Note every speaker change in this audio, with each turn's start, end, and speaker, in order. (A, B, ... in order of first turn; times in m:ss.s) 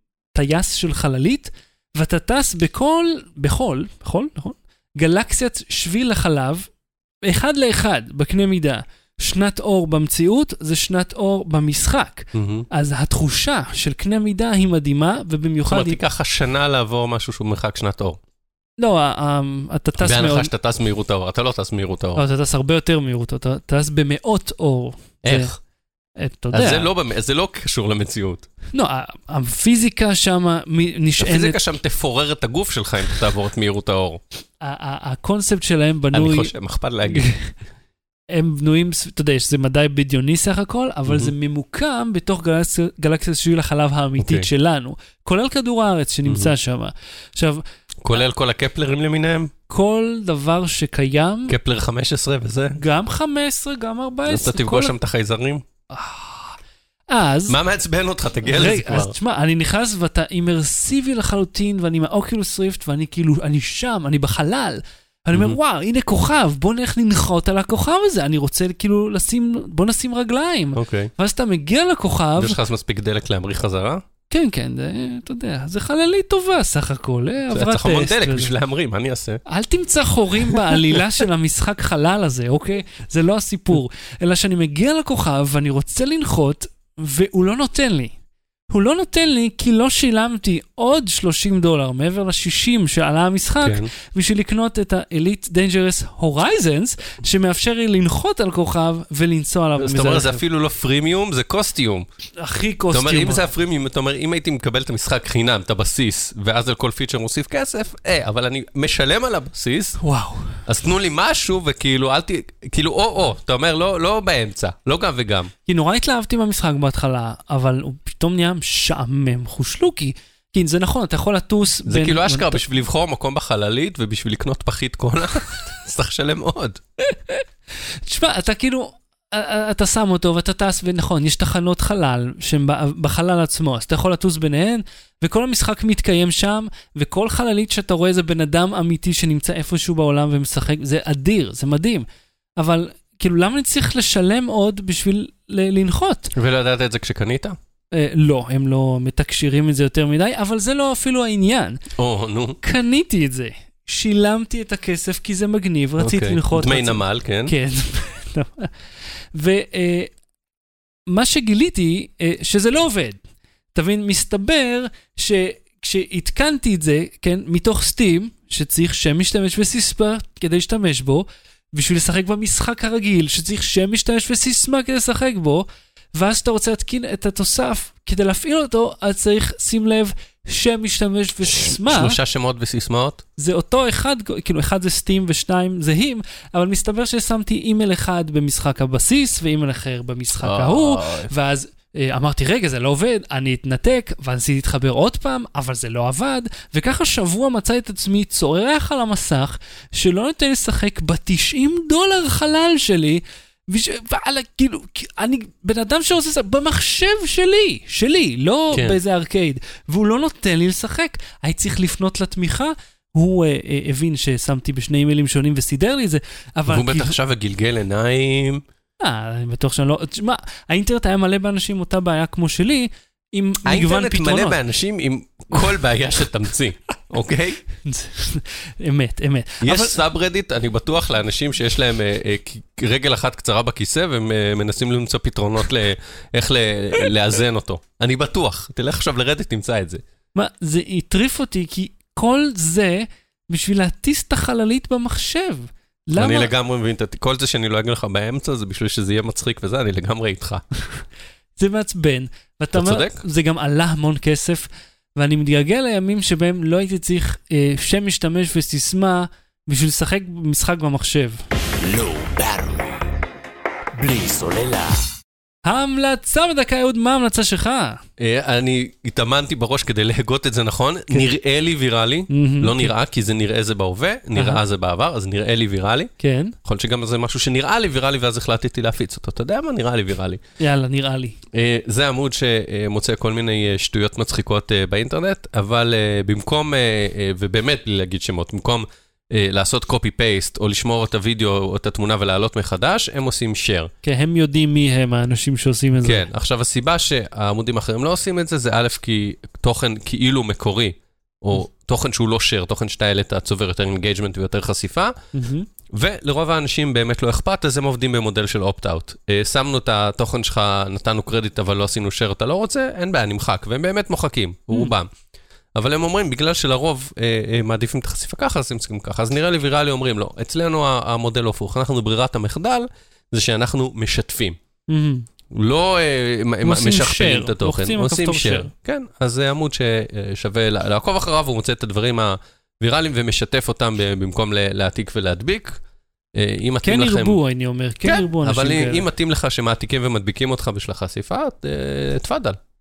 0:00.3-0:06.7 A
0:07.3-0:16.0 A
0:12.3-0:12.7 B
0:15.7-0:18.2 B
0:18.8-0:20.5 A
0:20.0-0:22.2 B
0:22.2-0:25.5 A
0:25.2-0:25.5 B
0:26.2-0:26.9 A
0:26.5-0:28.5 B
0:28.7-0:31.6 A
0:31.2-0:34.2 B
0:34.6-0:36.5 A
0:36.1-0:37.3 B
0:37.1-0:37.5 A
0:38.3-0:47.6 A
0:41.1-0:41.3 B
0:44.2-0:44.5 B
0:46.3-0:46.5 B
0:48.0-0:49.5 B
0:49.7-0:51.6 A
0:51.5-0:52.8 B
0:52.8-0:54.9 A
0:54.3-0:55.6 B
0:55.9-0:56.6 A
0:57.1-0:57.6 A
0:57.5-0:59.1 B
0:58.5-1:12.6 A
1:05.3-1:05.6 B
1:10.8-1:11.1 B
1:12.4-1:14.0 B
1:14.3-1:18.5 A
1:17.5-1:19.4 B
1:19.5-1:28.1 A
1:20.5-1:21.2 B
1:28.7-1:40.4 A
1:33.6-1:33.9 B
1:39.8-1:42.1 B
1:42.4-1:43.4 A
1:42.9-1:50.0 B
1:50.0-1:50.6 A
1:50.7-1:55.5 B
1:55.7-2:02.6 A
2:01.9-2:06.8 B
2:07.1-2:07.4 A
2:08.1-2:22.1 A
2:22.6-2:26.3 A
2:26.3-2:27.6 B
2:27.9-2:31.8 A
2:32.0-2:32.6 B
2:32.6-2:38.7 A
2:36.0-2:37.5 B
2:39.3-2:40.1 A
2:41.1-2:43.2 A
2:43.7-3:02.2 A
3:01.6-3:03.2 B
3:03.4-3:37.2 A
3:10.4-3:11.3 B
3:28.7-3:29.0 B
3:36.7-3:38.6 B
3:39.0-3:44.6 A
3:43.7-3:47.6 B
3:47.8-3:50.0 A
3:49.6-4:00.0 B
4:00.4-4:06.5 A
4:06.2-4:10.6 B
4:11.6-4:21.4 A
4:12.8-4:13.2 B
4:21.8-4:23.1 C
4:24.0-4:25.1 C
4:25.6-4:28.0 A
4:28.2-4:36.1 B
4:32.3-4:32.9 A
4:34.4-4:34.6 A
4:36.2-4:36.6 A
4:36.6-4:40.4 B
4:40.6-4:41.4 A
4:41.5-4:53.9 B
4:54.0-4:56.3 A
4:56.0-5:05.2 B
5:05.3-5:05.7 A
5:05.9-5:15.1 B
5:15.8-5:24.6 B
5:24.9-5:25.3 A
5:25.5-5:35.8 B
5:26.6-5:28.7 A
5:36.4-5:37.4 B
5:36.8-5:39.1 A
5:38.0-5:42.6 B